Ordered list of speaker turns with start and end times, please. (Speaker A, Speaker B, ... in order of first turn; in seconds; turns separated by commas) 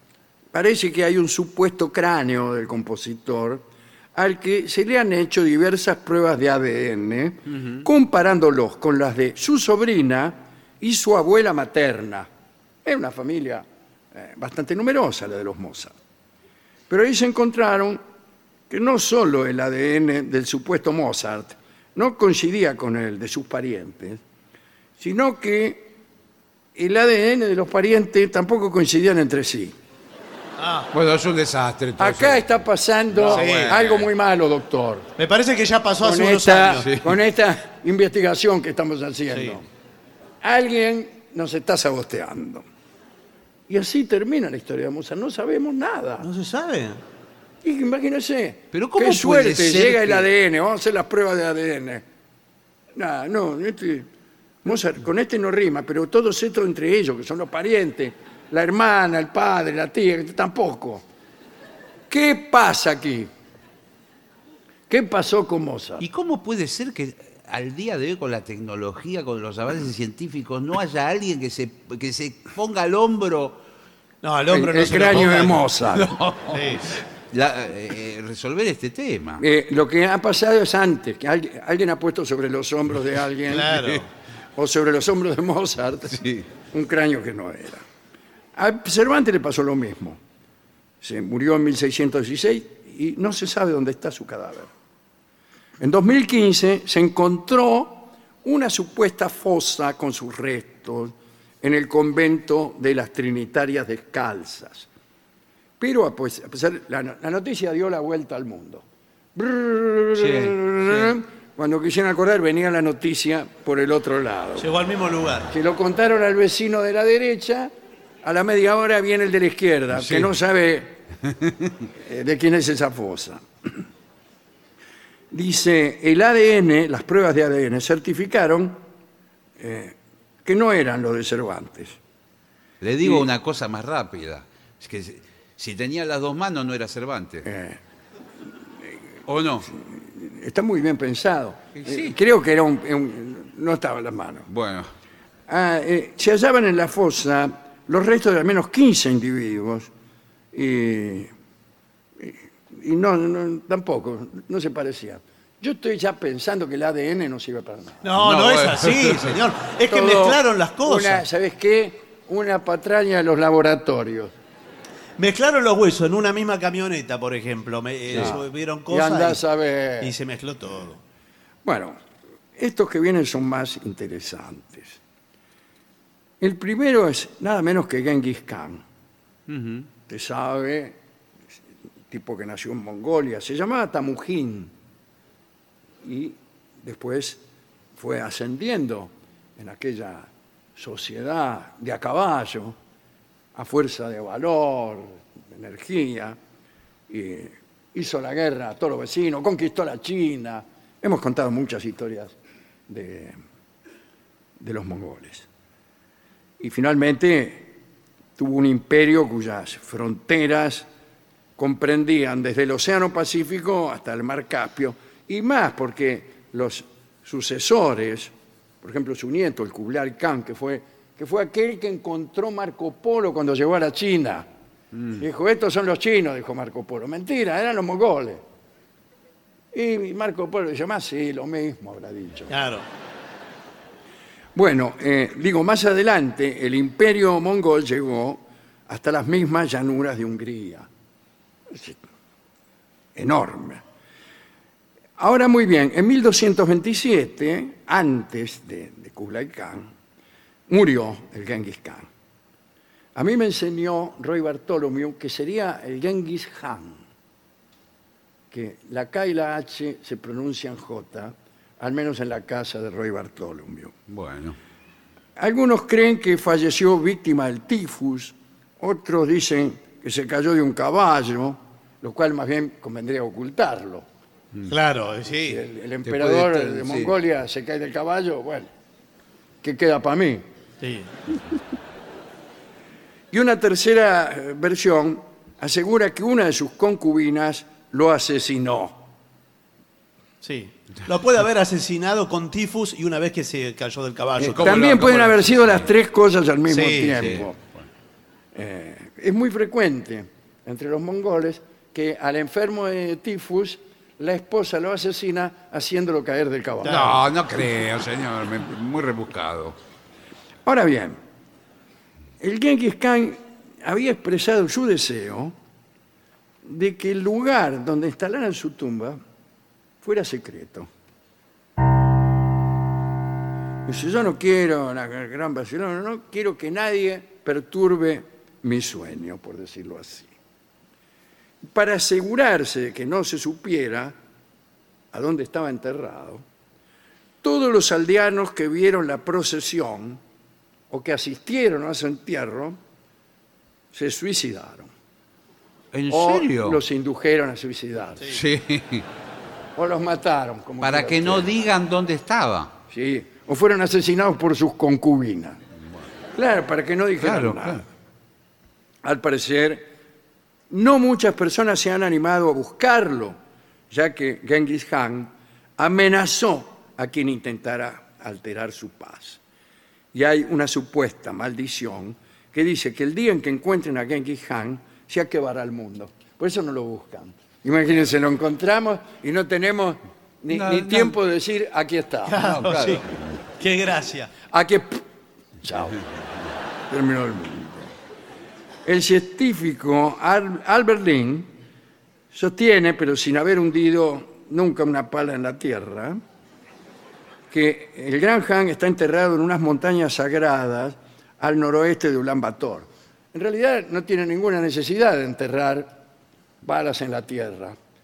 Speaker A: 0.5-3.6, Speaker A: 4.1-12.3, Speaker A: 12.8-15.9, Speaker A: 16.9-18.0, Speaker A: 18.7-24.2, Speaker A: 25.0-25.9, Speaker A: 26.7-29.7, Speaker B: 30.6-30.9, Speaker C: 30.9-32.5, Speaker A: 32.0-35.1, Speaker C: 33.1-34.1, Speaker B: 33.3-33.9, Speaker B: 35.2-36.9, Speaker A: 36.0-39.7, Speaker C: 36.8-37.2, Speaker B: 39.3-39.6, Speaker A: 40.4-42.6, Speaker A: 43.7-46.3, Speaker B: 46.2-47.0, Speaker A: 47.6-52.0, Speaker C: 48.7-50.3, Speaker A: 52.9-54.1, Speaker A: 54.6-61.0, Speaker A: 62.1-63.3, Speaker A: 64.9-66.0, Speaker C: 66.0-73.6, Speaker B: 74.2-75.7, Speaker A: 74.5-76.2, Speaker C: 75.9-79.4, Speaker B: 76.5-76.8, Speaker A: 79.4-83.8, Speaker B: 83.5-84.1, Speaker A: 84.5-87.8, Speaker C: 86.1-86.5, Speaker A: 88.5-90.2, Speaker A: 91.0-94.7, Speaker A: 95.8-104.9, Speaker A: 105.8-108.8, Speaker A: 109.3-114.7, Speaker C: 110.2-111.1, Speaker B: 114.6-115.5, Speaker A: 115.5-117.7, Speaker A: 118.2-121.0, Speaker C: 119.9-120.3, Speaker A: 121.9-123.8, Speaker A: 125.3-128.8, Speaker A: 129.6-132.0, Speaker C: 132.8-137.5, Speaker A: 137.4-137.8, Speaker C: 139.3-139.7, Speaker A: 139.7-144.5, Speaker C: 141.8-142.1, Speaker C: 144.5-144.9, Speaker A: 145.5-149.9, Speaker A: 150.5-151.3, Speaker A: 152.2-158.1, Speaker B: 158.0-161.2, Speaker C: 158.2-159.3, Speaker A: 159.9-164.3, Speaker B: 165.2-169.4, Speaker A: 168.1-170.1, Speaker B: 170.0-171.0, Speaker A: 171.6-172.0, Speaker A: 172.6-175.0, Speaker A: 176.4-178.8, Speaker C: 179.5-179.9, Speaker A: 180.1-180.9, Speaker A: 182.1-184.7, Speaker A: 186.0-187.4, Speaker A: 187.9-192.8, Speaker A: 193.5-196.4, Speaker A: 197.1-202.3, Speaker A: 202.9-203.4, Speaker A: 204.6-205.5, Speaker A: 206.6-207.7, Speaker A: 208.4-210.9, Speaker A: 211.6-224.5, Speaker C: 224.9-225.2, Speaker A: 225.1-228.4, Speaker A: 229.7-232.5, Speaker B: 232.5-232.8, Speaker A: 234.5-240.9, Speaker A: 241.7-242.0, Speaker A: 243.2-243.8, Speaker A: 245.2-249.9, Speaker A: 250.7-252.1, Speaker A: 253.1-257.0, Speaker A: 258.5-263.9, Speaker C: 264.1-264.6, Speaker A: 265.4-274.1, Speaker B: 274.7-275.6, Speaker A: 275.4-278.7, Speaker C: 276.0-277.1, Speaker A: 279.6-280.4, Speaker B: 280.8-281.1, Speaker A: 283.3-289.0, Speaker B: 290.4-295.4, Speaker A: 294.4-297.6, Speaker C: 294.6-295.9, Speaker B: 296.7-297.3, Speaker C: 297.1-297.8, Speaker A: 298.5-307.2, Speaker B: 306.8-307.1, Speaker C: 306.8-309.8, Speaker A: 310.6-311.2, Speaker A: 312.4-315.5, Speaker A: 316.6-319.2, Speaker A: 320.0-320.9, Speaker A: 323.9-330.3, Speaker A: 331.6-334.2, Speaker A: 335.1-336.4, Speaker A: 337.4-340.2, Speaker A: 340.9-342.8, Speaker A: 343.9-344.9, Speaker C: 345.9-346.8, Speaker A: 346.1-348.4, Speaker C: 348.3-349.1, Speaker A: 349.8-351.5, Speaker C: 350.8-352.7, Speaker A: 352.9-355.6, Speaker A: 356.3-357.9, Speaker C: 357.2-357.8, Speaker A: 359.0-359.9, Speaker A: 360.7-363.4, Speaker A: 363.9-369.4, Speaker A: 370.1-382.4, Speaker C: 380.5-381.2, Speaker B: 382.2-383.1, Speaker C: 382.4-383.4, Speaker B: 383.6-384.3, Speaker A: 384.5-385.0, Speaker A: 385.6-386.0, Speaker A: 386.9-387.9, Speaker A: 388.8-391.5, Speaker A: 392.3-396.2, Speaker A: 397.5-406.0, Speaker A: 406.6-407.8